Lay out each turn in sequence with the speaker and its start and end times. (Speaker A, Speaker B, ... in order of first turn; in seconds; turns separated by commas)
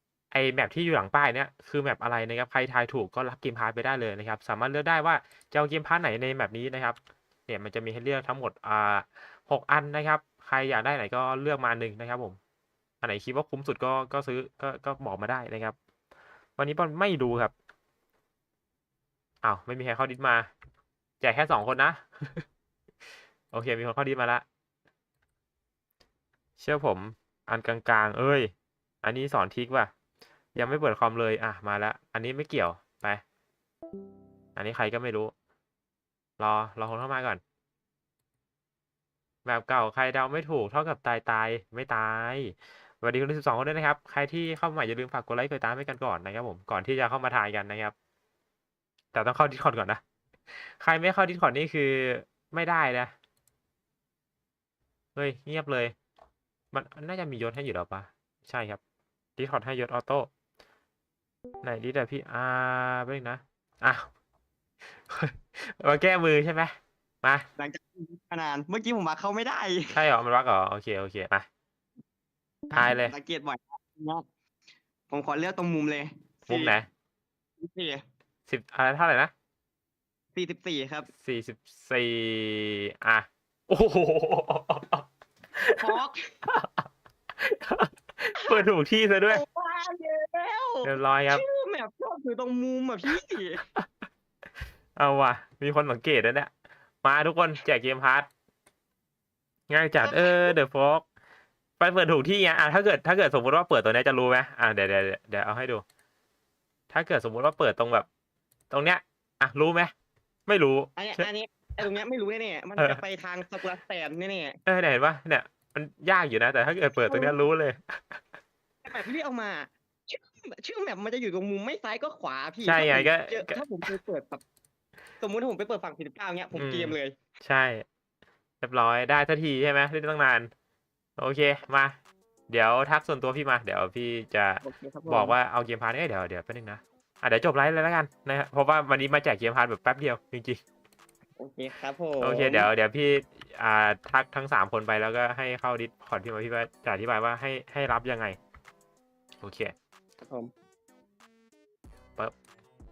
Speaker A: 0.3-7.0, Speaker A: 7.5-12.4, Speaker A: 13.0-15.8, Speaker A: 16.6-17.5, Speaker A: 19.4-20.5, Speaker A: 21.2-22.4, Speaker A: 23.5-24.4, Speaker A: 26.6-28.5, Speaker A: 29.0-29.9, Speaker A: 30.6-33.2, Speaker A: 34.6-35.3, Speaker A: 36.4-37.4, Speaker A: 39.5-47.9, Speaker A: 49.1-50.0, Speaker A: 50.5-53.1, Speaker A: 55.2-55.9, Speaker A: 56.7-58.8, Speaker A: 59.4-60.3, Speaker A: 61.6-64.1, Speaker A: 65.0-67.5, Speaker B: 67.6-70.0, Speaker A: 69.9-71.5, Speaker A: 72.7-73.1, Speaker B: 72.7-74.2, Speaker B: 75.1-76.8, Speaker A: 76.5-76.9, Speaker B: 77.6-78.0, Speaker A: 78.5-79.3, Speaker B: 80.3-81.1, Speaker A: 81.2-85.1, Speaker A: 85.6-86.0, Speaker B: 85.8-86.3, Speaker A: 86.5-86.8, Speaker A: 87.4-89.4, Speaker B: 88.4-88.6, Speaker B: 89.3-93.6, Speaker A: 90.8-91.4, Speaker A: 95.0-96.5, Speaker A: 97.0-98.3, Speaker A: 99.7-101.0, Speaker B: 100.0-100.5, Speaker A: 101.8-105.8, Speaker A: 106.9-108.1, Speaker A: 108.7-109.9, Speaker A: 110.5-111.3, Speaker B: 111.0-114.6, Speaker A: 112.8-113.0, Speaker A: 114.7-118.2, Speaker B: 117.0-117.3, Speaker B: 118.8-124.4, Speaker A: 122.7-123.6, Speaker B: 125.2-127.2, Speaker A: 126.5-127.8, Speaker A: 128.6-130.5, Speaker A: 131.2-132.0, Speaker A: 132.5-140.6, Speaker B: 134.6-135.3, Speaker B: 141.4-142.7, Speaker A: 142.2-148.4, Speaker A: 149.4-149.7